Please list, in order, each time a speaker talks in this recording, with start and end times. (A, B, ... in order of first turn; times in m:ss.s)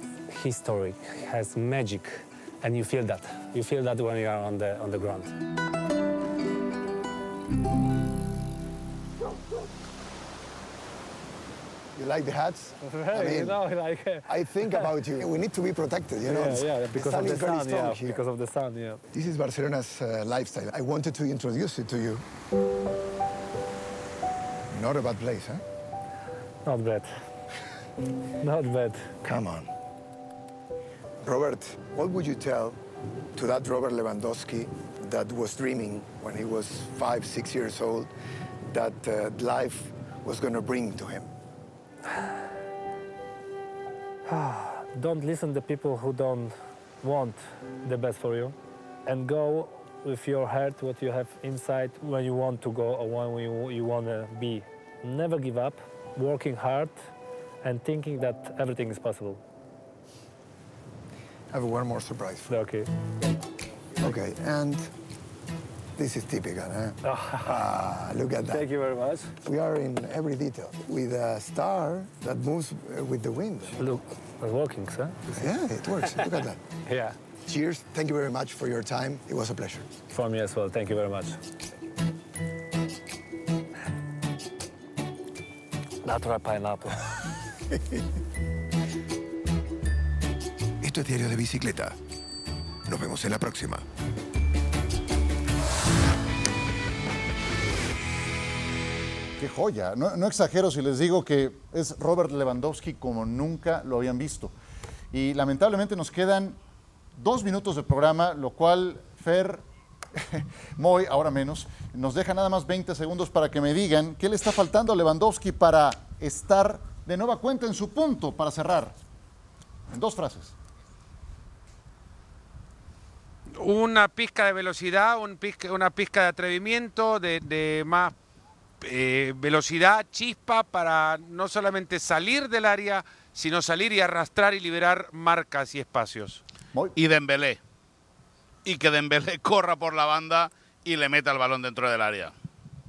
0:00.3-0:05.4 A
0:12.0-0:13.6 B
0:12.8-0:14.9 A
0:14.3-0:18.3 B
0:16.3-0:19.0 A
0:19.1-0:22.2 B
0:24.7-0:25.6 B
0:26.6-0:27.1 A
0:28.4-0:29.1 A
0:29.2-0:29.7 B
0:31.2-0:32.8 B
0:33.4-0:38.1 B
0:38.7-0:41.3 B
0:44.3-0:57.0 A
0:57.6-0:59.4 A
1:01.5-1:02.5 B
1:02.5-1:02.9 A
1:04.0-1:04.9 B
1:06.0-1:08.7 B
1:07.0-1:07.6 A
1:08.5-1:09.3 A
1:09.4-1:13.9 B
1:13.8-1:15.4 A
1:15.3-1:16.6 B
1:16.2-1:17.2 A
1:17.5-1:19.9 B
1:20.1-1:21.4 A
1:26.0-1:27.1 A
1:30.8-1:32.0 C
1:32.8-1:33.8 C
1:39.4-1:44.5 D
1:45.1-1:46.6 D
1:47.2-1:58.9 D
1:59.9-2:00.5 D
2:03.6-2:08.1 E
2:08.8-2:16.4 E
2:17.0-2:17.6 F
2:18.6-2:22.3 F